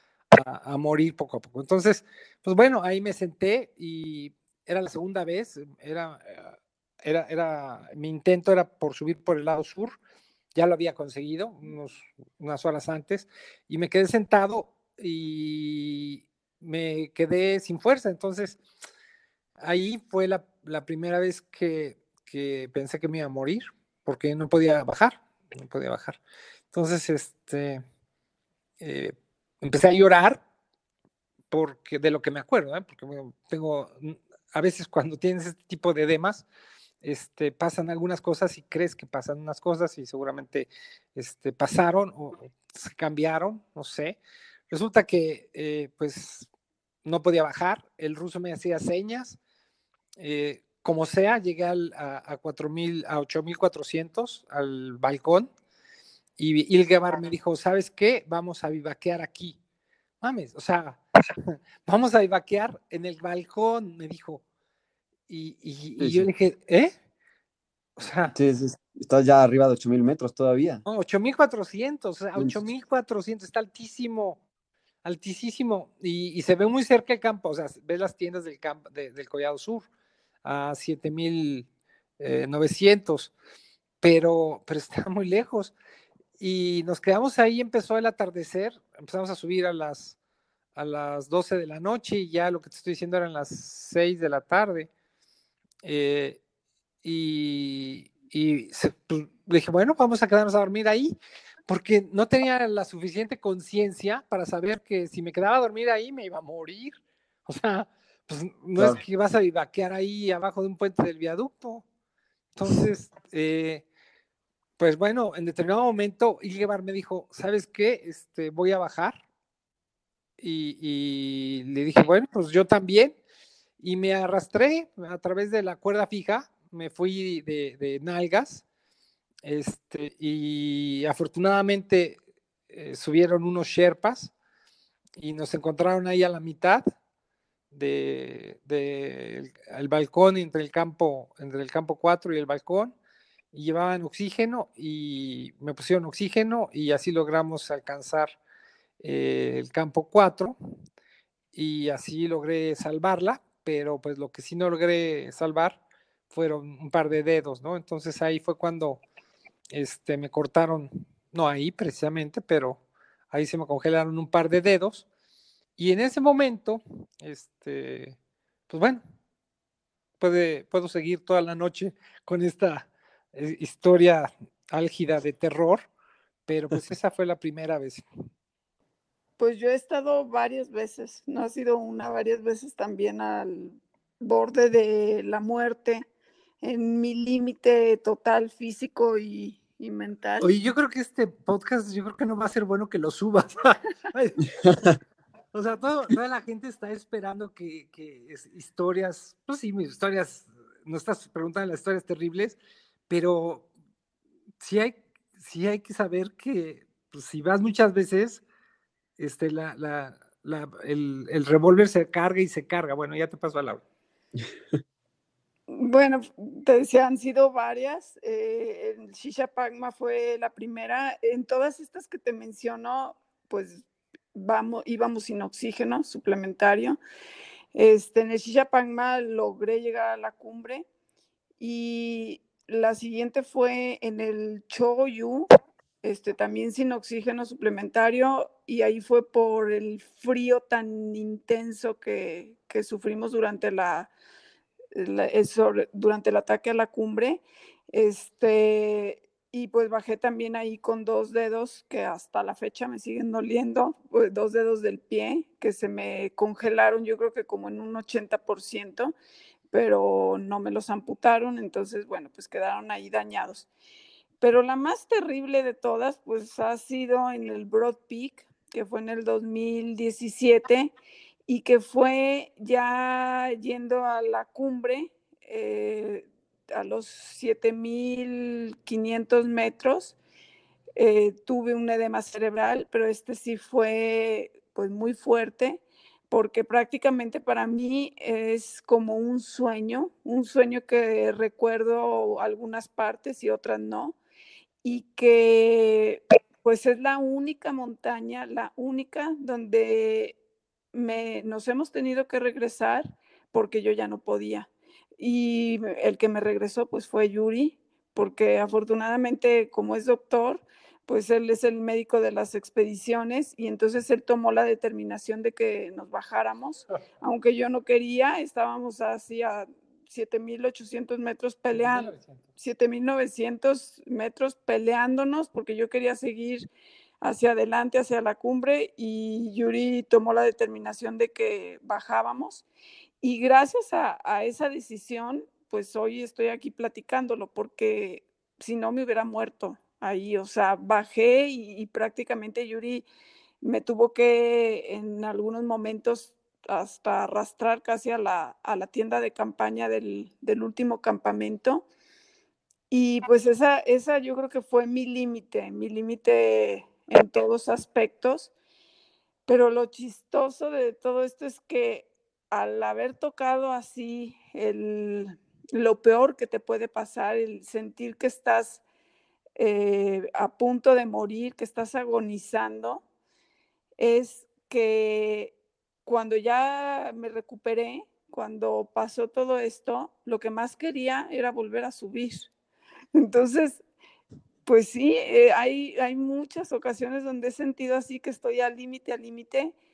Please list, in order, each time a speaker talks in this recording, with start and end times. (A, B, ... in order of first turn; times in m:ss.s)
0:00.3-0:10.0 A
0:10.5-0:18.6 A
0:19.6-0:26.2 A
0:26.7-0:27.8 A
0:28.8-0:30.4 A
0:31.5-0:36.4 A
0:37.0-0:44.2 A
0:44.7-0:46.5 A
0:47.0-0:49.4 A
0:50.2-0:55.5 A
0:56.4-0:59.6 A
1:00.2-1:04.4 A
1:05.3-1:06.9 A
1:06.0-1:06.3 B
1:08.0-1:08.3 A
1:08.3-1:10.8 B
1:10.8-1:14.4 A
1:12.3-1:12.6 B
1:15.0-1:19.9 A
1:20.4-1:21.7 A
1:22.2-1:23.3 A
1:24.0-1:25.7 A
1:26.4-1:30.2 A
1:30.7-1:34.9 A
1:35.8-1:36.4 A
1:37.0-1:41.1 A
1:41.7-1:51.8 A
1:52.6-1:53.8 A
1:54.8-1:59.2 A
2:00.4-2:03.2 A
2:03.8-2:08.6 A
2:09.4-2:12.2 A
2:12.7-2:14.3 A
2:15.2-2:16.8 A
2:17.7-2:22.9 A
2:23.5-2:28.4 A
2:29.0-2:30.6 A
2:31.5-2:35.8 A
2:36.3-2:39.0 A
2:39.7-2:45.0 A
2:45.8-2:48.2 A
2:48.7-2:49.0 A
2:50.2-2:55.9 A
2:56.5-2:58.0 A
2:59.4-3:06.0 C
3:06.6-3:10.5 C
3:10.4-3:14.4 A
3:14.6-3:15.0 B
3:15.5-3:22.6 A
3:23.1-3:23.6 A
3:24.6-3:28.4 A
3:29.2-3:33.8 A
3:35.7-3:43.8 C
3:44.3-3:47.0 C
3:47.7-3:50.9 C
3:51.6-3:55.5 C
3:56.0-4:04.1 C
4:04.9-4:19.1 C
4:19.7-4:23.7 C
4:24.4-4:30.9 C
4:31.5-4:40.1 C
4:41.0-4:54.2 C
4:54.8-5:00.4 C
5:00.9-5:26.7 C
5:21.8-5:22.4 A
5:27.2-5:32.6 C
5:33.2-5:43.0 C
5:43.6-5:51.8 C
5:52.9-5:58.5 C
5:59.5-6:08.8 C
6:09.6-6:13.0 C
6:14.0-6:15.5 C
6:16.0-6:22.5 C
6:23.1-6:23.8 C
6:24.6-6:29.7 C